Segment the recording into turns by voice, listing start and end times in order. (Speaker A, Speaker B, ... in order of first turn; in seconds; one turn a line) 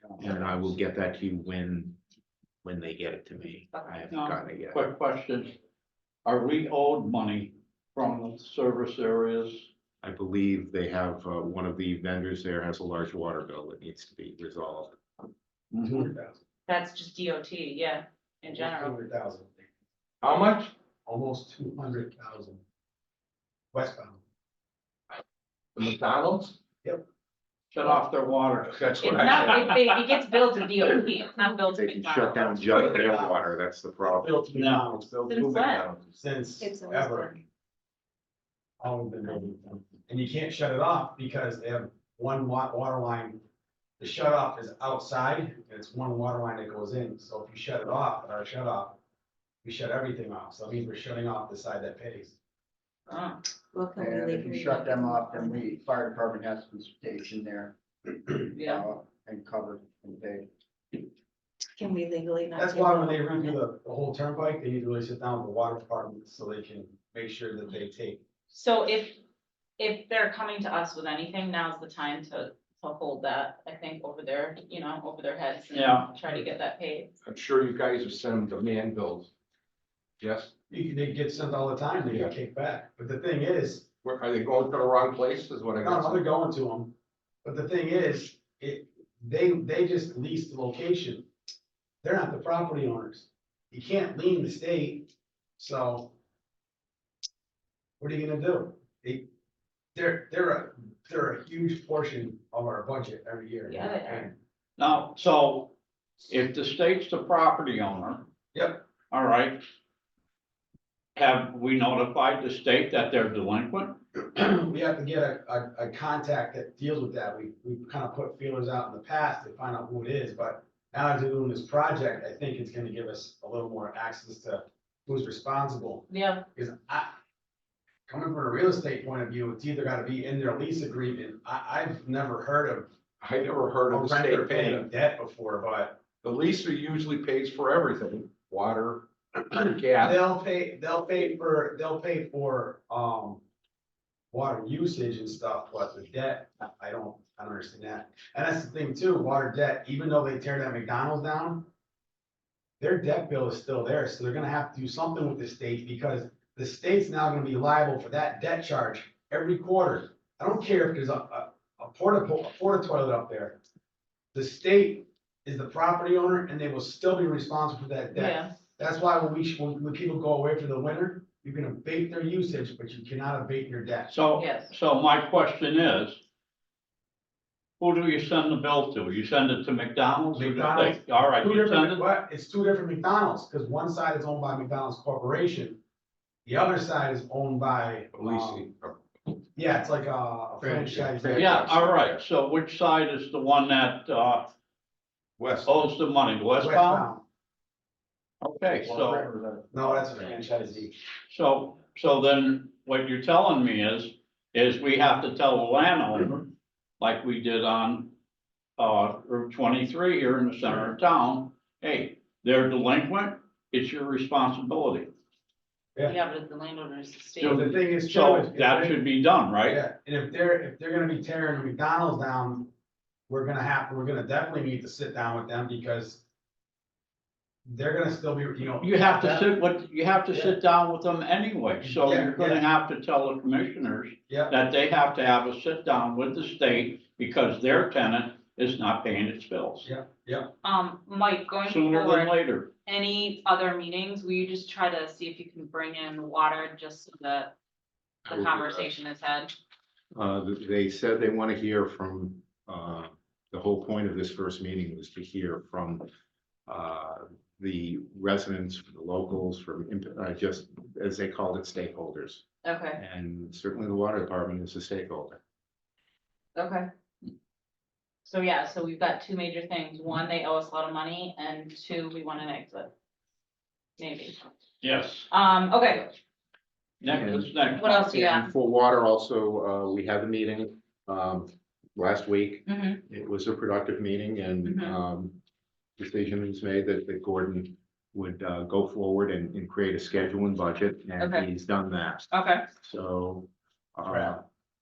Speaker A: 0.2-2.0
Speaker A: 2.6-4.8
Speaker B: 3.7-4.1
Speaker C: 4.1-5.6
Speaker C: 6.2-9.7
Speaker A: 10.0-15.0
Speaker C: 15.7-16.1
Speaker D: 15.7-16.4
Speaker B: 16.7-19.0
Speaker D: 18.5-19.5
Speaker E: 20.2-20.8
Speaker D: 21.1-22.6
Speaker D: 23.7-24.2
Speaker E: 25.8-26.6
Speaker C: 27.7-29.7
Speaker E: 28.7-29.8
Speaker B: 29.0-32.6
Speaker A: 31.8-34.3
Speaker D: 32.7-33.4
Speaker D: 34.0-35.6
Speaker C: 34.5-34.8
Speaker E: 35.3-36.2
Speaker B: 35.3-35.9
Speaker D: 36.1-37.4
Speaker F: 36.6-37.4
Speaker D: 38.8-43.4
Speaker D: 44.0-49.0
Speaker D: 49.6-52.4
Speaker B: 53.1-53.4
Speaker F: 53.7-55.6
Speaker G: 54.0-57.8
Speaker G: 58.3-60.5
Speaker B: 58.5-58.8
Speaker F: 61.8-63.4
Speaker D: 62.6-68.2
Speaker B: 68.5-69.2
Speaker B: 69.8-77.1
Speaker C: 75.7-76.1
Speaker E: 77.2-79.3
Speaker E: 80.2-80.5
Speaker D: 80.7-83.9
Speaker E: 82.1-82.3
Speaker E: 84.0-86.2
Speaker D: 85.8-91.3
Speaker D: 92.0-96.1
Speaker D: 98.0-99.3
Speaker D: 100.0-104.3
Speaker B: 103.7-104.3
Speaker C: 104.8-105.7
Speaker C: 106.3-108.3
Speaker D: 108.5-108.8
Speaker C: 109.1-109.6
Speaker C: 111.2-114.0
Speaker D: 114.3-127.1
Speaker B: 126.1-126.4
Speaker D: 128.1-132.9
Speaker E: 133.2-134.9
Speaker D: 133.9-136.1
Speaker E: 136.2-140.2
Speaker D: 139.9-143.4
Speaker D: 144.3-151.7
Speaker D: 152.8-163.6
Speaker D: 164.3-174.2
Speaker B: 168.1-168.6
Speaker C: 174.1-176.2
Speaker B: 174.4-174.7
Speaker C: 177.8-182.1
Speaker D: 180.3-185.8
Speaker D: 186.5-188.7
Speaker E: 188.1-189.0
Speaker D: 189.6-191.9
Speaker A: 190.6-191.9
Speaker E: 191.2-191.6
Speaker C: 191.3-194.5
Speaker E: 195.4-195.9
Speaker C: 195.7-197.1
Speaker D: 196.6-197.2
Speaker C: 198.4-199.3
Speaker D: 199.7-200.9
Speaker C: 201.3-206.5
Speaker C: 207.0-208.1
Speaker C: 208.8-215.1
Speaker B: 216.0-217.7
Speaker C: 217.4-219.8
Speaker D: 217.4-219.0
Speaker D: 219.7-222.7
Speaker D: 223.3-226.2
Speaker D: 227.7-229.6
Speaker C: 228.8-239.9
Speaker D: 231.8-232.6
Speaker D: 234.3-234.6
Speaker D: 239.8-240.5
Speaker B: 240.6-242.3
Speaker C: 241.7-242.7
Speaker B: 242.8-247.5
Speaker B: 248.3-249.5
Speaker A: 248.3-248.9
Speaker A: 250.1-256.1
Speaker A: 256.7-262.4
Speaker B: 262.6-263.0
Speaker A: 263.0-265.4
Speaker B: 266.6-266.9
Speaker B: 268.2-272.9
Speaker B: 274.0-274.4
Speaker C: 274.8-275.3
Speaker B: 275.3-276.1
Speaker C: 277.0-277.8
Speaker A: 277.1-285.4
Speaker B: 277.8-278.5
Speaker B: 282.7-283.0
Speaker B: 284.6-285.0
Speaker A: 286.0-294.4
Speaker B: 291.2-291.5
Speaker B: 292.3-292.7
Speaker D: 294.1-294.4